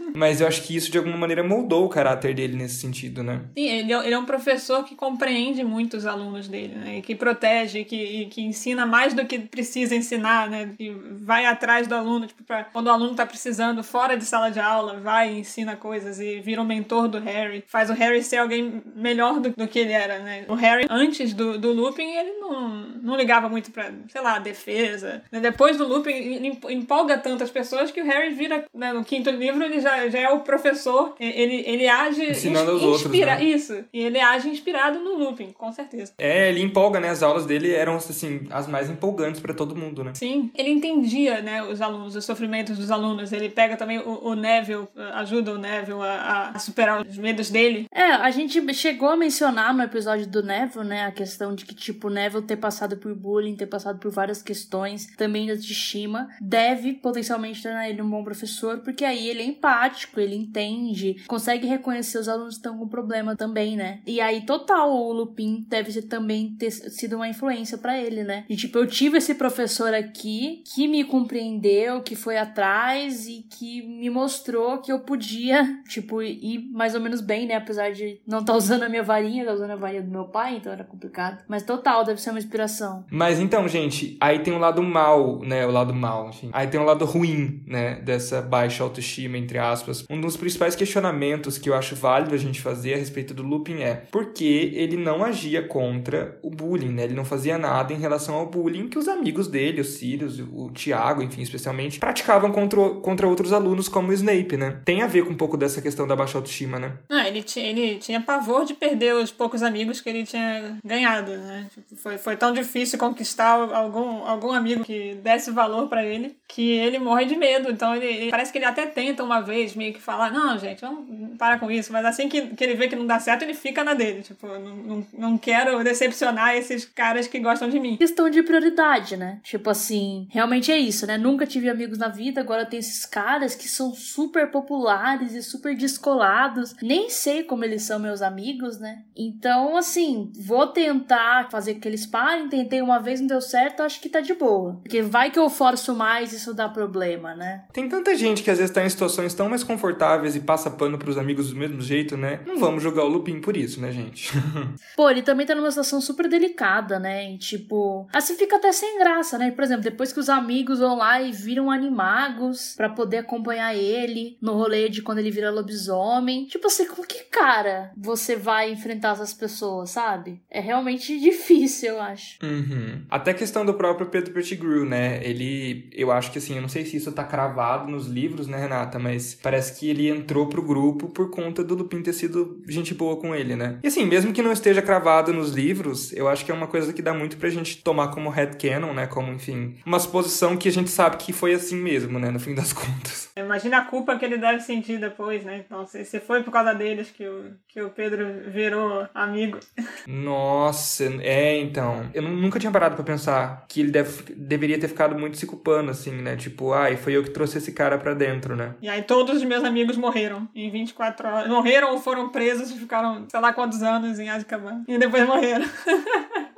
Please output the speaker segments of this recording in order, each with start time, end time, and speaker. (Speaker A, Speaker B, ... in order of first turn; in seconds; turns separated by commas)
Speaker A: 0.1-3.5, Speaker B: 3.5-36.1, Speaker A: 32.3-33.4, Speaker A: 36.2-40.2, Speaker B: 40.2-47.9, Speaker C: 47.9-83.1, Speaker A: 83.1-107.0, Speaker B: 107.1-128.0, Speaker C: 128.0-147.6, Speaker A: 147.7-154.7, Speaker C: 154.9-172.4, Speaker A: 172.4-193.3, Speaker B: 193.4-199.6, Speaker A: 200.1-208.8, Speaker B: 208.8-216.4